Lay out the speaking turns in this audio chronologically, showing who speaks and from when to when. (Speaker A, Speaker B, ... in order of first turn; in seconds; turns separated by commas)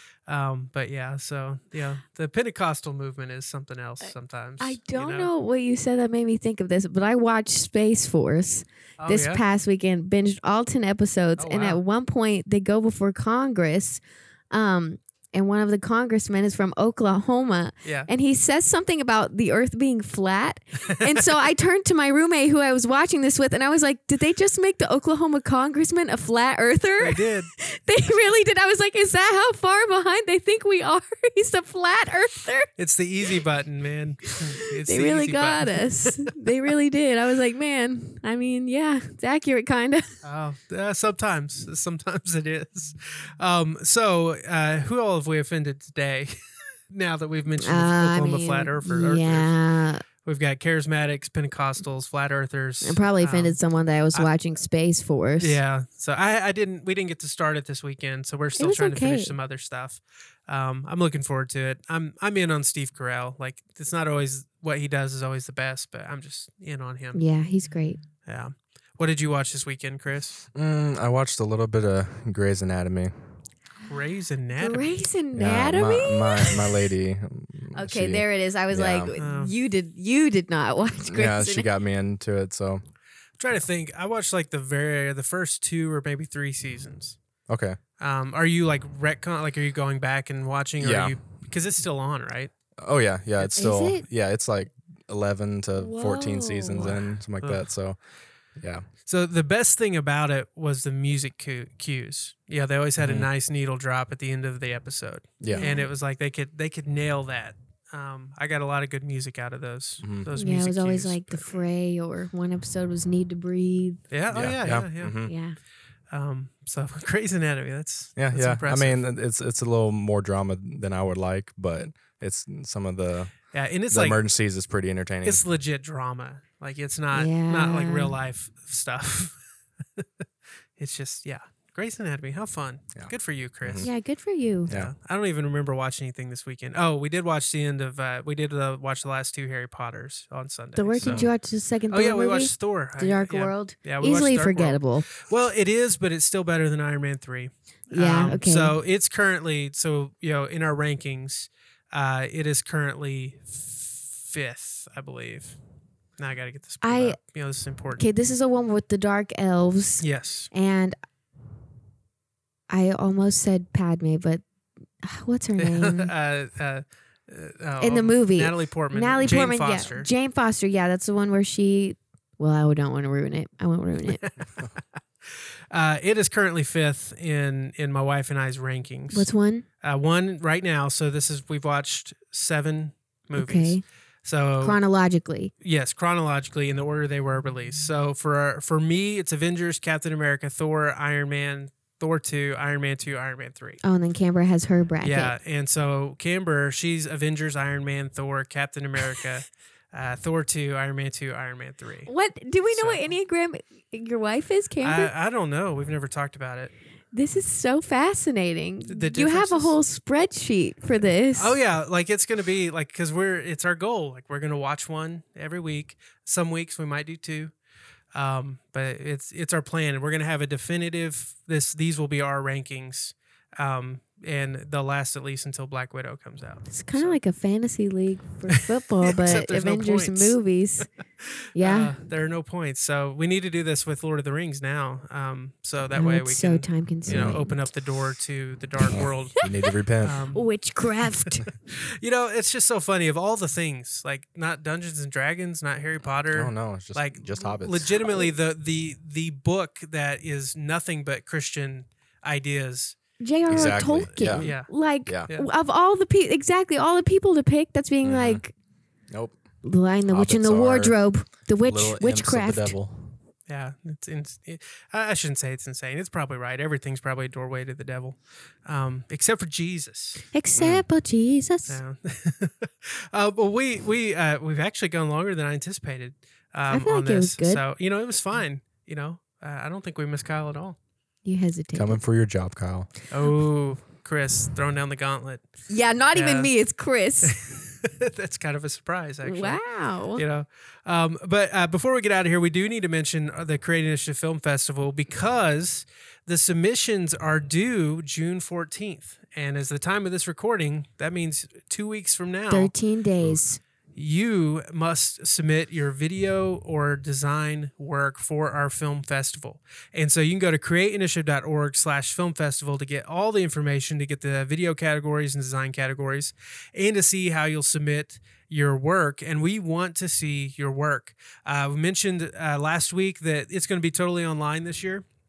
Speaker A: 0.3-5.3, Speaker B: 4.6-32.7, Speaker A: 9.0-9.4, Speaker A: 11.4-11.8, Speaker A: 17.8-18.1, Speaker A: 27.0-27.5, Speaker A: 32.8-36.3, Speaker B: 34.5-40.2, Speaker A: 40.2-54.3, Speaker B: 47.6-50.0, Speaker B: 52.8-55.6, Speaker A: 55.4-67.3, Speaker B: 58.6-59.4, Speaker B: 67.1-68.0, Speaker A: 68.2-70.5, Speaker C: 70.5-73.1, Speaker A: 73.9-74.9, Speaker B: 74.6-76.9, Speaker C: 75.3-79.1, Speaker B: 77.7-81.7, Speaker A: 79.2-79.5, Speaker C: 81.1-82.8, Speaker A: 83.4-87.2, Speaker C: 87.5-87.8, Speaker A: 88.0-92.5, Speaker C: 90.8-91.2, Speaker C: 92.8-98.9, Speaker A: 93.4-93.7, Speaker B: 93.6-94.1, Speaker B: 95.8-97.0, Speaker A: 96.8-97.8, Speaker A: 99.0-111.6, Speaker C: 103.0-103.3, Speaker C: 105.4-105.7, Speaker B: 105.5-105.9, Speaker C: 110.0-110.3, Speaker B: 110.3-114.0, Speaker A: 114.1-115.4, Speaker C: 114.3-115.3, Speaker B: 114.8-115.6, Speaker A: 116.1-119.0, Speaker C: 118.2-125.4, Speaker A: 123.5-124.2, Speaker A: 125.2-130.0, Speaker B: 127.1-128.2, Speaker A: 130.8-134.0, Speaker C: 132.9-133.9, Speaker B: 133.8-134.7, Speaker C: 134.7-134.9, Speaker A: 134.7-141.3, Speaker B: 140.8-145.1, Speaker C: 141.0-141.3, Speaker A: 141.9-155.6, Speaker B: 147.9-148.8, Speaker A: 156.1-158.0, Speaker B: 156.8-157.2, Speaker B: 157.9-161.0, Speaker A: 160.0-160.5, Speaker B: 162.7-164.4, Speaker B: 165.0-166.1, Speaker A: 165.6-170.1, Speaker B: 167.8-174.2, Speaker A: 174.1-174.6, Speaker A: 175.2-184.8, Speaker B: 179.1-179.7, Speaker B: 183.3-184.0, Speaker B: 184.6-185.5, Speaker A: 185.6-193.8, Speaker B: 193.8-195.3, Speaker A: 195.0-202.1, Speaker B: 202.1-205.1, Speaker A: 202.7-203.1, Speaker A: 204.8-206.7, Speaker B: 207.1-211.6, Speaker A: 208.9-209.8, Speaker A: 211.3-217.5, Speaker A: 218.1-227.2, Speaker B: 226.7-230.9, Speaker A: 229.1-230.4, Speaker B: 231.5-232.0, Speaker A: 231.6-239.5, Speaker B: 235.9-237.6, Speaker C: 237.1-237.4, Speaker B: 238.8-239.1, Speaker C: 239.4-240.2, Speaker A: 240.0-240.5, Speaker B: 240.3-241.5, Speaker A: 241.4-253.0, Speaker C: 246.3-247.9, Speaker B: 253.2-258.5, Speaker C: 253.5-255.3, Speaker A: 254.2-254.7, Speaker C: 258.0-258.5, Speaker C: 259.1-259.4, Speaker B: 259.6-262.8, Speaker C: 260.1-263.2, Speaker A: 263.5-270.3, Speaker B: 270.3-271.8, Speaker C: 270.6-270.9, Speaker A: 271.7-280.8, Speaker B: 276.7-277.6, Speaker B: 281.2-282.0, Speaker C: 281.7-282.9, Speaker A: 283.1-286.6, Speaker B: 285.7-287.4, Speaker A: 287.2-302.7, Speaker B: 289.2-290.2, Speaker B: 302.5-303.6, Speaker A: 303.9-325.1